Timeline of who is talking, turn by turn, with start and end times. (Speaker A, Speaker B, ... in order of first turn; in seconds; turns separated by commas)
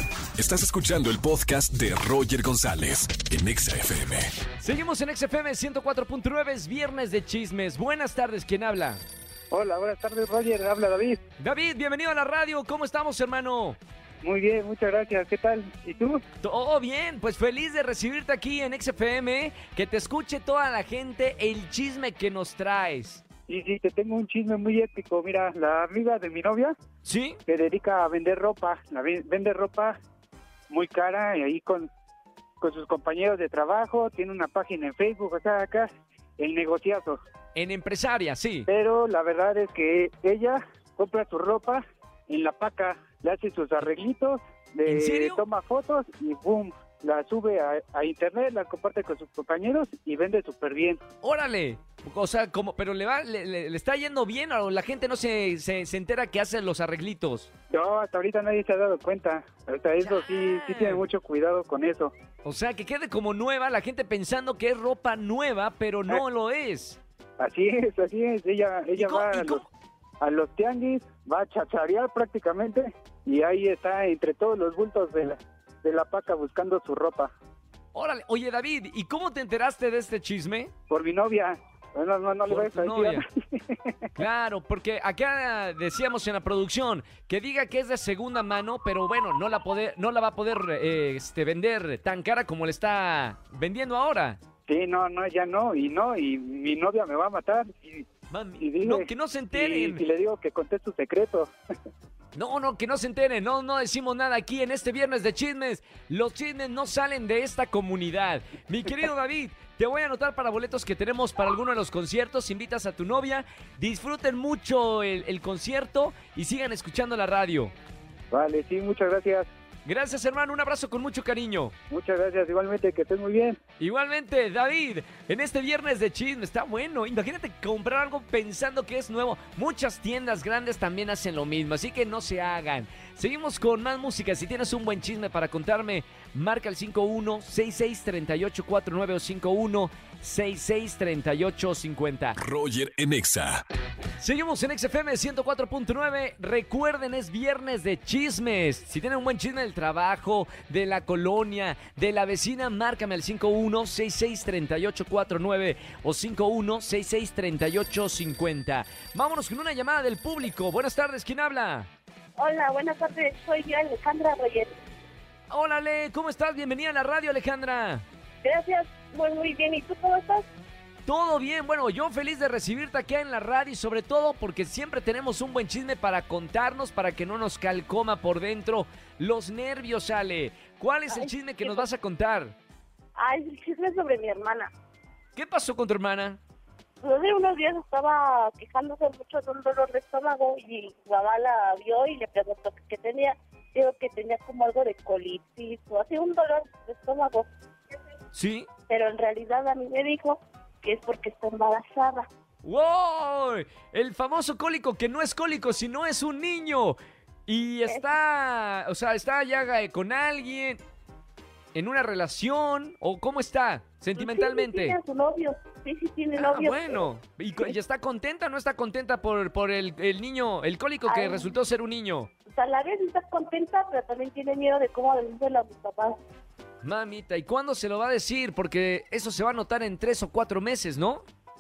Speaker A: 0.4-4.3, Speaker B: 4.6-9.0, Speaker C: 9.5-11.2, Speaker B: 11.4-13.8, Speaker C: 14.2-16.2, Speaker B: 16.4-23.2, Speaker C: 23.5-26.7, Speaker B: 27.1-27.4, Speaker C: 27.5-30.0, Speaker C: 30.7-31.9, Speaker C: 32.6-37.2, Speaker B: 37.5-38.7, Speaker C: 38.7-51.0, Speaker B: 44.9-45.4, Speaker B: 51.2-57.5, Speaker C: 57.7-62.1, Speaker B: 60.0-61.0, Speaker B: 62.4-67.0, Speaker C: 67.4-69.7, Speaker B: 69.0-69.7, Speaker C: 70.2-77.3, Speaker B: 77.9-80.7, Speaker C: 80.9-84.1, Speaker B: 82.5-83.2, Speaker B: 84.2-94.4, Speaker C: 94.7-98.1, Speaker B: 98.3-100.0, Speaker C: 98.6-101.5, Speaker B: 102.3-117.7, Speaker C: 118.3-119.5, Speaker B: 119.8-121.7, Speaker C: 121.9-123.6, Speaker B: 123.8-142.4, Speaker A: 142.4-143.6, Speaker B: 144.2-161.9, Speaker D: 162.4-164.7, Speaker B: 165.5-168.1, Speaker D: 168.4-170.5, Speaker B: 171.1-182.6, Speaker D: 181.1-181.8, Speaker D: 183.2-184.7, Speaker B: 185.4-186.4, Speaker D: 187.0-197.5, Speaker B: 198.3-198.7, Speaker D: 198.9-202.3, Speaker B: 202.6-210.8, Speaker B: 211.7-215.0, Speaker D: 214.2-217.1, Speaker B: 216.3-222.3, Speaker D: 221.1-221.6, Speaker D: 222.5-226.2, Speaker B: 226.8-231.2